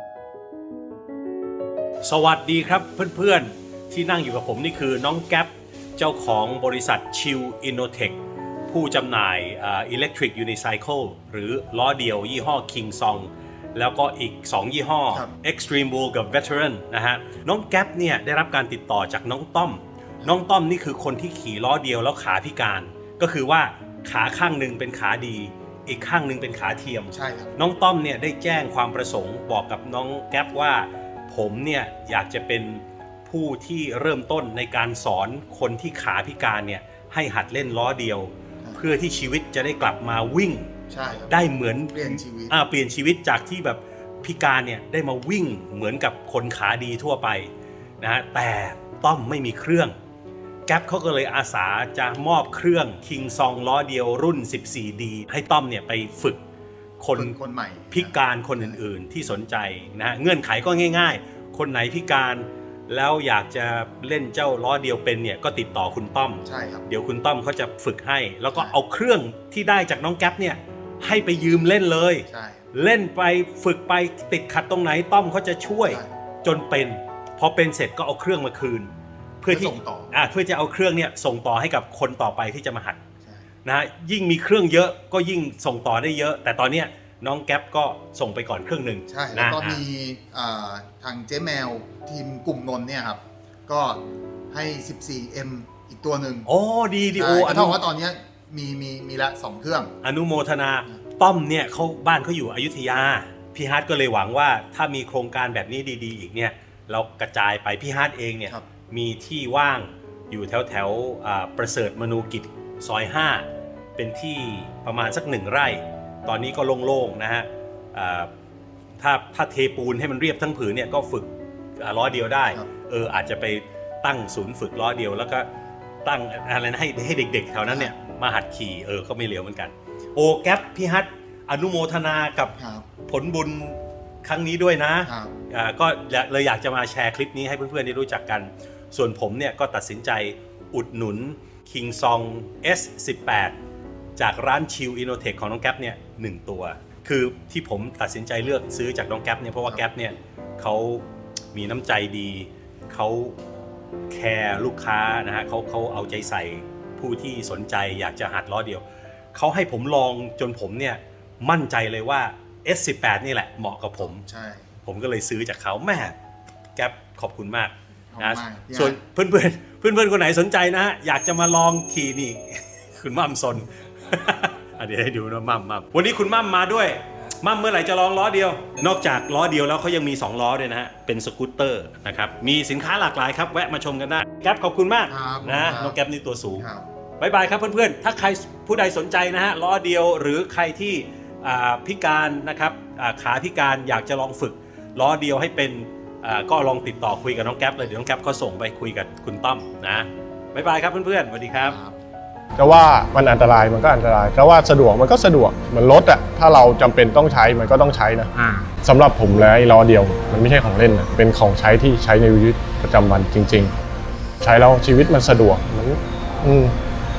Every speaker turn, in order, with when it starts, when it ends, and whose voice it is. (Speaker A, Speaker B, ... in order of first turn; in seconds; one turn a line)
Speaker A: 2.0-8.2
Speaker A: 8.7-40.7
Speaker B: 27.1-27.5
Speaker B: 40.9-42.5
Speaker A: 41.3-50.0
Speaker A: 50.7-56.4
Speaker A: 57.0-57.4
Speaker B: 57.1-58.8
Speaker A: 57.9-83.0
Speaker B: 66.5-66.8
Speaker B: 72.3-72.6
Speaker B: 79.5-80.2
Speaker A: 83.7-89.8
Speaker B: 89.1-96.5
Speaker A: 96.5-97.8
Speaker B: 97.2-99.9
Speaker A: 100.0-118.3
Speaker A: 119.0-125.5
Speaker A: 126.0-143.6
Speaker B: 127.7-127.9
Speaker B: 132.6-132.9
Speaker B: 135.1-135.3
Speaker A: 144.2-153.4
Speaker A: 154.1-164.2
Speaker B: 164.0-164.7
Speaker A: 164.8-166.2
Speaker A: 166.8-186.7
Speaker B: 168.1-169.0
Speaker B: 185.1-186.0
Speaker B: 186.6-186.9
Speaker A: 187.2-201.8
Speaker B: 201.6-202.0
Speaker C: 202.6-213.7
Speaker C: 214.4-216.8